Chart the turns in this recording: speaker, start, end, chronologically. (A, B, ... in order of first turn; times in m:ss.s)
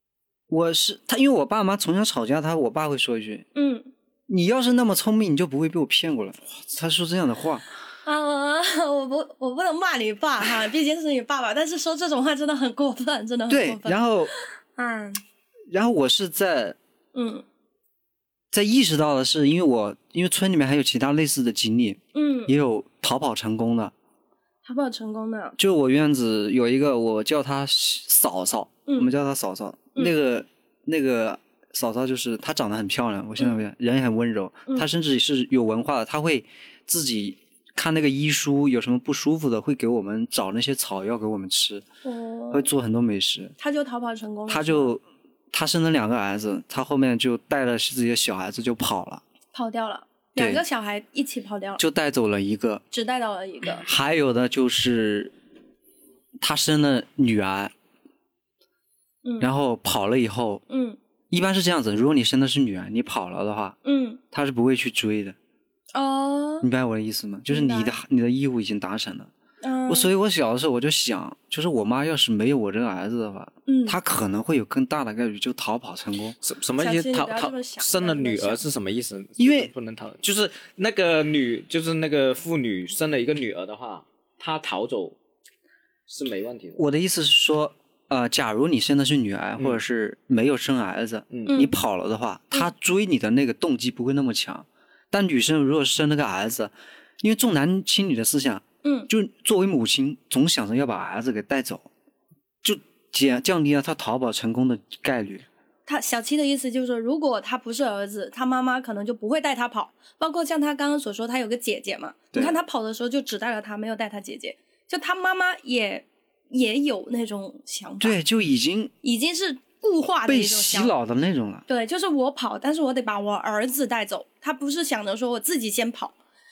0:00.5-0:03.5 A
0:03.6-0:03.9 B
0:04.3-0:07.7 A
0:08.0-0:15.2 B
0:13.5-0:14.3 A
0:15.7-0:16.8 A
0:17.1-0:17.4 B
0:18.5-0:23.9 A
0:22.1-0:22.5 B
0:24.6-0:25.6 B
0:25.6-0:41.9 A
0:42.0-0:42.7 B
0:42.5-0:43.6 A
0:43.6-0:44.9 B
0:44.5-0:49.2 A
0:49.5-0:51.8 B
0:50.4-0:50.6 A
0:51.8-0:52.8 A
0:52.9-0:53.8 B
0:53.8-0:55.3 A
0:56.4-0:57.7 A
0:59.2-0:59.5 B
0:59.4-1:00.6 A
1:00.7-1:01.0 B
1:01.3-1:03.8 A
1:03.8-1:04.2 B
1:04.3-1:05.4 A
1:05.9-1:06.7 B
1:06.6-1:09.3 A
1:07.5-1:08.0 B
1:09.6-1:10.1 B
1:09.9-1:16.4 A
1:13.7-1:14.0 B
1:16.4-1:25.2 C
1:16.8-1:18.6 B
1:19.4-1:19.7 A
1:26.1-1:26.8 C
1:26.8-1:41.9 A
1:31.3-1:31.6 C
1:31.5-1:31.8 B
1:42.6-1:45.5 A
1:45.9-1:58.2 B
1:52.3-1:52.6 A
1:58.0-1:58.9 A
1:59.0-2:00.9 B
2:00.3-2:01.7 A
2:01.7-2:06.2 B